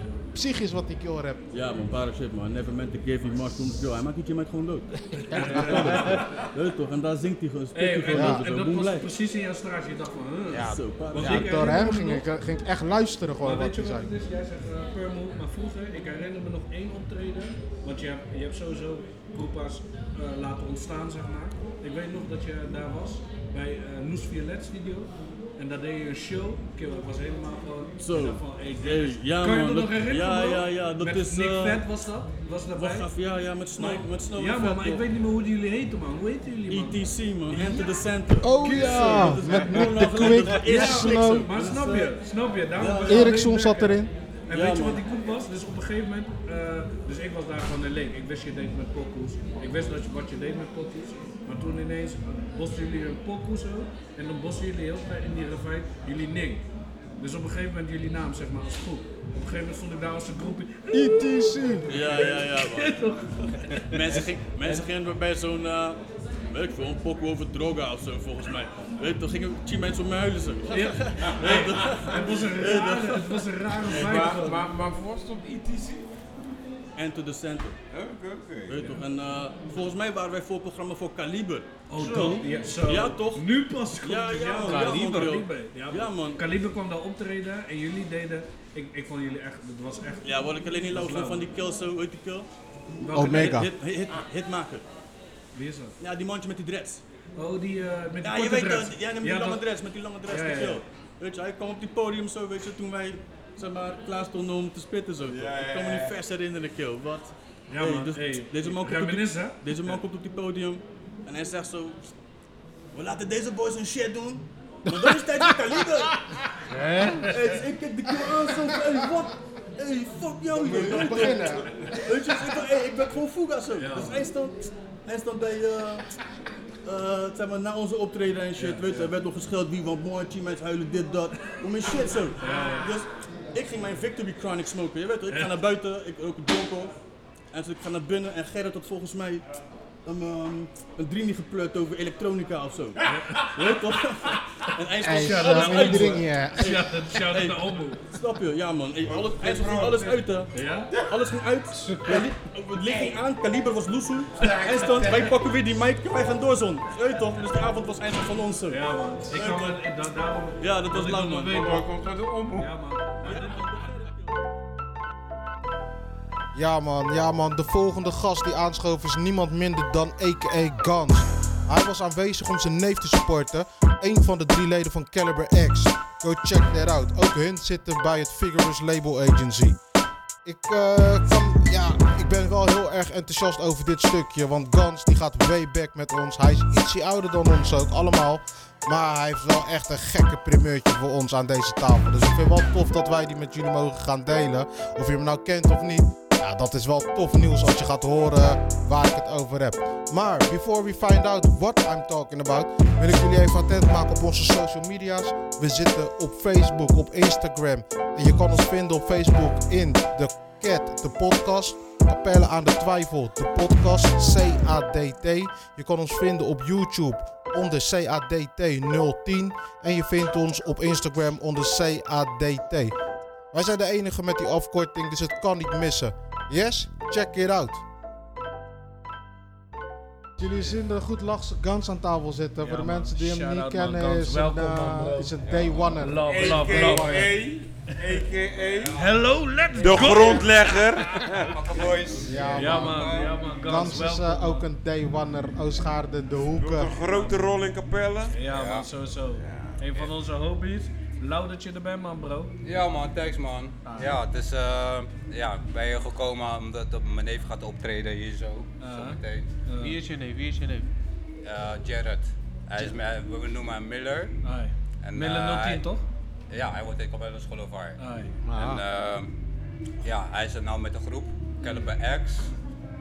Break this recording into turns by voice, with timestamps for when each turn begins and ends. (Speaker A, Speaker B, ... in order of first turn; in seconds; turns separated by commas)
Speaker A: 0.3-1.4, Speaker B: 1.5-9.1, Speaker C: 5.2-6.2, Speaker A: 5.3-6.1, Speaker C: 7.7-12.2, Speaker A: 8.1-8.4, Speaker A: 10.5-14.1, Speaker B: 10.6-11.7, Speaker C: 13.4-33.1, Speaker B: 28.0-31.8, Speaker B: 32.7-35.0, Speaker C: 33.8-37.9, Speaker B: 36.7-43.4, Speaker A: 38.4-41.5, Speaker C: 38.6-39.8, Speaker C: 40.5-56.6, Speaker A: 43.1-44.1, Speaker B: 44.5-45.0, Speaker C: 57.2-64.8, Speaker A: 60.9-61.9, Speaker B: 61.9-63.0, Speaker B: 63.7-74.4, Speaker C: 70.7-74.7, Speaker D: 71.2-72.7, Speaker D: 73.9-76.1, Speaker B: 77.0-77.8, Speaker D: 77.9-79.0, Speaker B: 78.7-86.4, Speaker C: 81.9-91.4, Speaker E: 84.7-85.0, Speaker B: 90.2-92.5, Speaker C: 93.0-93.6, Speaker B: 93.1-94.8, Speaker A: 93.1-93.7, Speaker C: 95.5-95.9, Speaker B: 96.0-97.0, Speaker C: 97.3-99.6, Speaker B: 98.2-112.1, Speaker C: 100.3-100.8, Speaker D: 105.2-106.2, Speaker C: 107.7-109.6, Speaker B: 112.9-126.1, Speaker A: 114.9-115.6, Speaker A: 116.7-117.4, Speaker A: 120.6-121.7, Speaker D: 120.6-121.6, Speaker C: 123.8-124.2, Speaker B: 126.8-136.9, Speaker C: 128.6-129.1, Speaker C: 132.4-132.9, Speaker B: 137.5-139.4, Speaker B: 140.0-143.0, Speaker C: 143.0-143.4, Speaker B: 143.5-159.6, Speaker A: 145.0-146.8, Speaker C: 145.0-148.0, Speaker D: 149.0-150.3, Speaker C: 150.5-150.9, Speaker D: 150.9-151.4, Speaker D: 152.8-153.2, Speaker D: 154.3-155.5, Speaker C: 158.7-161.9, Speaker D: 159.3-159.8, Speaker B: 160.6-161.9, Speaker D: 161.5-162.7, Speaker C: 162.5-163.7, Speaker B: 163.2-164.3, Speaker A: 166.5-179.8, Speaker A: 180.4-222.9, Speaker A: 223.5-227.8, Speaker A: 230.4-237.3, Speaker C: 232.6-237.3, Speaker D: 235.4-239.1, Speaker F: 238.7-239.1, Speaker C: 238.9-241.3, Speaker D: 239.8-241.9, Speaker F: 239.8-240.5, Speaker F: 241.4-243.2, Speaker A: 242.2-246.9, Speaker C: 242.5-244.7, Speaker E: 242.8-243.3, Speaker D: 246.5-248.3, Speaker C: 248.3-252.5, Speaker F: 248.4-248.9, Speaker D: 249.4-249.8, Speaker F: 252.6-259.5, Speaker C: 253.8-254.1, Speaker C: 258.8-260.0, Speaker E: 259.8-260.9, Speaker F: 261.4-264.3, Speaker C: 264.4-266.0, Speaker F: 265.0-265.9, Speaker F: 266.5-268.0, Speaker C: 268.0-268.3, Speaker A: 268.4-268.8, Speaker F: 268.5-269.3, Speaker F: 270.0-272.5, Speaker C: 271.6-271.9